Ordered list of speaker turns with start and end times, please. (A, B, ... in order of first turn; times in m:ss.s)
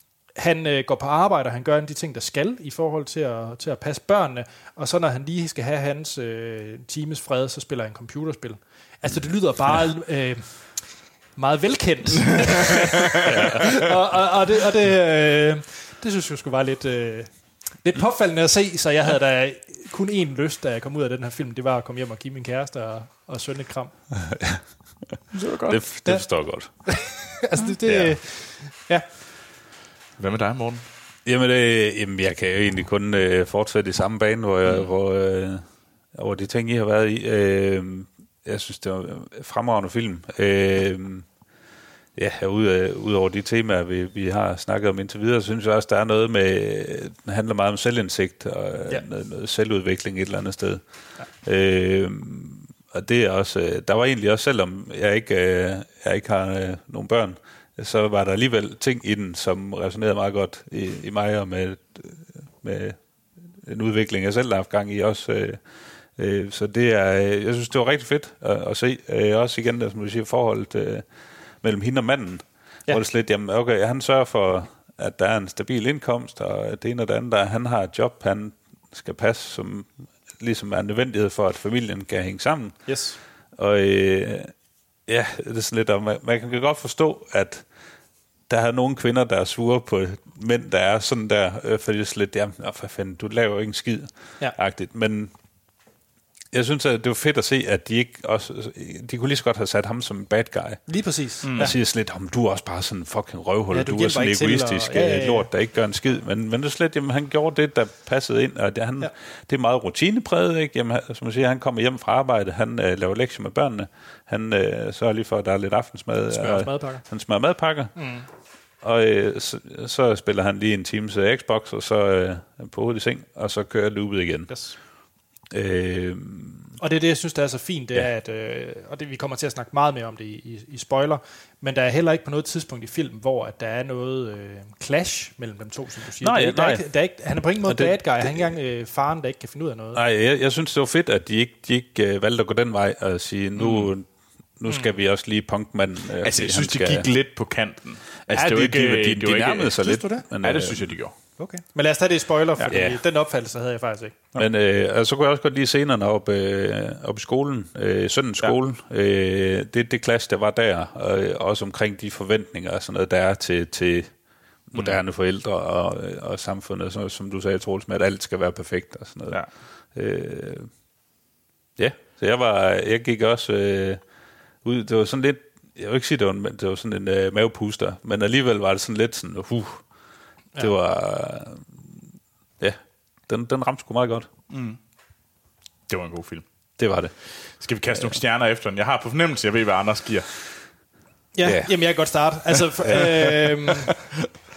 0:00.3-0:24.0 A
0:13.3-0:13.6 B
0:24.3-0:24.6 B
0:25.3-0:25.9 C
0:25.7-0:26.9 B
0:26.1-0:29.1 A
0:27.8-0:28.1 B
0:30.2-0:30.8 C
0:31.2-0:41.3 B
0:34.6-0:34.9 C
0:42.2-0:50.8 B
0:51.4-1:03.0 B
1:03.5-1:05.6 B
1:06.2-1:11.1 B
1:11.6-1:23.0 B
1:22.8-1:23.2 A
1:23.6-1:24.5 B
1:25.1-1:27.6 B
1:28.5-1:35.3 B
1:36.5-1:40.9 B
1:40.9-1:41.7 A
1:41.4-1:41.7 C
1:41.6-1:58.0 B
1:43.7-1:45.5 A
1:56.3-1:57.1 A
1:57.9-1:58.3 A
1:58.8-2:04.6 B
2:04.5-2:04.8 A
2:05.5-2:06.8 B
2:06.8-2:20.0 A
2:16.2-2:16.8 B
2:17.6-2:18.5 B
2:19.9-2:27.1 B
2:23.6-2:23.9 C
2:26.2-2:31.1 C
2:28.3-2:31.0 B
2:29.8-2:30.2 A
2:31.4-2:34.2 A
2:32.6-2:33.0 B
2:34.4-2:50.7 B
2:44.7-2:45.0 C
2:51.8-2:54.0 B
2:54.6-2:59.8 B
3:00.6-3:02.0 B
3:02.6-3:04.3 B
3:04.5-3:04.8 C
3:05.9-3:06.4 C
3:06.8-3:07.1 B
3:07.6-3:10.3 C
3:11.3-3:14.0 A
3:11.4-3:11.7 B
3:12.8-3:13.3 B